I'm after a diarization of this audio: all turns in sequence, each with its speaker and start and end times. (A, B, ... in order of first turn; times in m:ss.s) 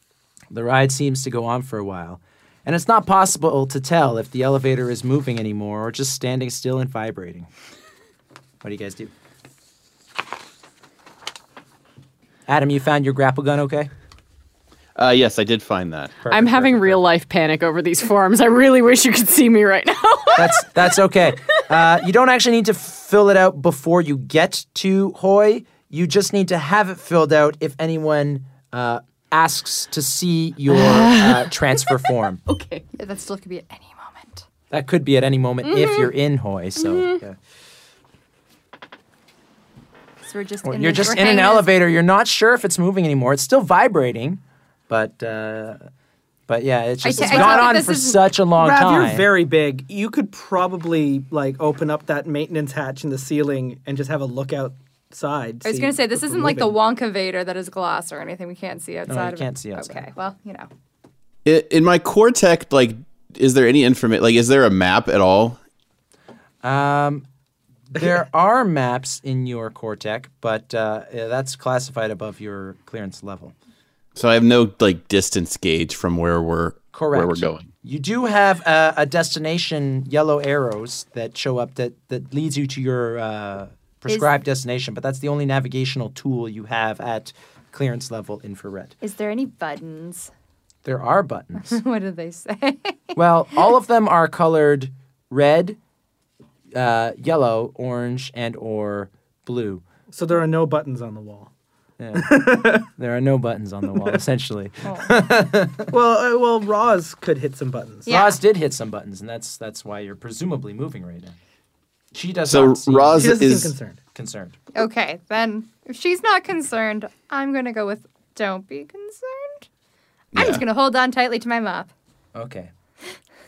0:00.5-0:07.5 A
0:08.6-0:09.1 A
0:12.5-0:13.9 A
0:15.0-0:16.2 B
0:16.2-0:17.0 A
0:16.3-0:20.8 C
0:20.3-0:32.4 A
0:30.7-0:32.8 C
0:33.0-0:34.4 D
0:34.7-0:37.4 A
0:35.6-0:36.1 C
0:36.8-0:37.2 C
0:40.2-0:41.7 D
0:40.6-0:45.8 A
0:46.5-0:49.3 A
0:47.0-0:48.2 D
0:47.2-0:47.7 E
0:48.6-0:56.8 E
0:55.6-1:00.7 D
0:59.1-1:00.0 A
1:01.4-1:05.6 B
1:06.6-1:07.2 A
1:07.9-1:13.5 A
1:14.1-1:17.7 B
1:16.9-1:29.0 A
1:29.0-1:30.3 D
1:30.8-1:31.8 A
1:31.6-1:33.1 D
1:33.2-1:35.8 A
1:36.7-1:39.8 A
1:40.1-1:41.5 E
1:42.0-1:45.9 A
1:42.1-1:42.9 E
1:45.9-1:48.1 E
1:48.0-1:48.4 D
1:48.1-1:51.4 A
1:52.1-1:53.4 A
1:52.5-1:53.7 B
1:53.2-1:54.0 E
1:54.1-1:54.6 A
1:54.7-1:59.6 D
2:00.3-2:00.6 B
2:00.3-2:01.9 D
2:02.3-2:02.7 A